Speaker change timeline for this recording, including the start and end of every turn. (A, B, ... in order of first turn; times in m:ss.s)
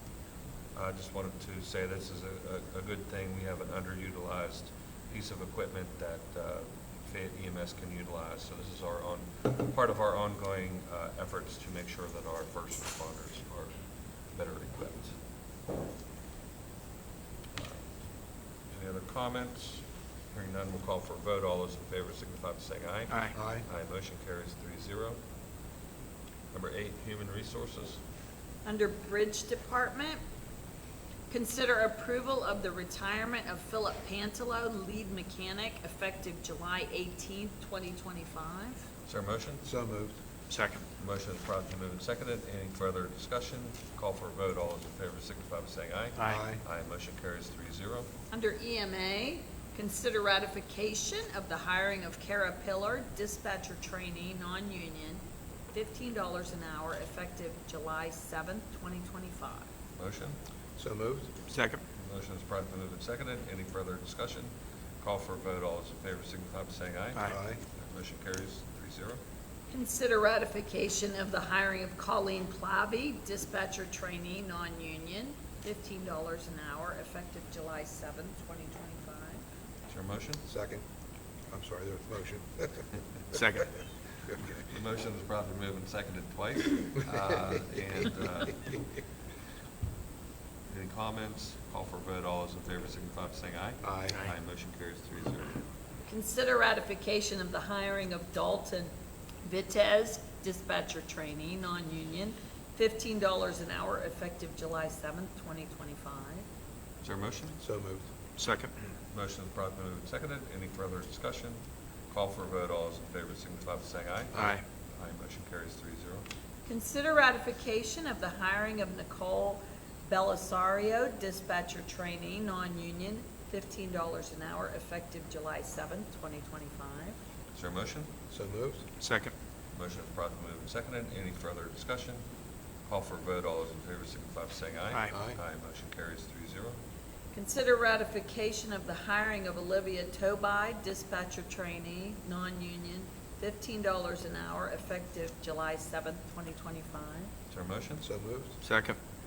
0:00.8-0:13.7 A
0:14.3-0:15.2 A
0:17.6-0:17.8 A
0:18.7-0:25.2 A
0:23.3-0:23.6 B
0:26.5-0:28.0 A
0:28.6-0:30.2 C
0:31.3-0:38.8 C
0:39.1-0:39.6 A
0:39.6-0:40.2 B
0:40.5-0:40.8 D
0:41.0-0:48.1 A
0:46.2-0:46.4 D
0:46.2-0:46.6 B
0:48.3-0:55.2 C
0:55.7-0:59.7 C
1:00.0-1:00.4 A
1:00.8-1:01.3 B
1:01.5-1:01.8 D
1:02.0-1:09.2 A
1:07.3-1:07.6 B
1:09.7-1:19.4 C
1:19.9-1:20.4 A
1:20.5-1:20.8 B
1:21.5-1:22.8 B
1:23.3-1:23.7 D
1:24.3-1:24.6 B
1:24.7-1:28.7 A
1:30.7-1:35.6 A
1:33.8-1:34.2 B
1:36.1-1:38.9 C
1:39.4-1:46.5 C
1:47.0-1:47.6 A
1:47.6-1:48.1 B
1:48.4-1:48.7 D
1:49.1-1:56.2 A
1:54.4-1:54.6 D
1:56.7-2:07.2 C
2:07.5-2:08.1 A
2:08.3-2:08.8 B
2:09.0-2:09.3 D
2:09.8-2:12.2 A
2:12.9-2:16.8 A
2:15.1-2:15.4 B
2:17.3-2:27.3 C
2:27.5-2:28.0 A
2:28.0-2:28.6 B
2:28.6-2:29.0 D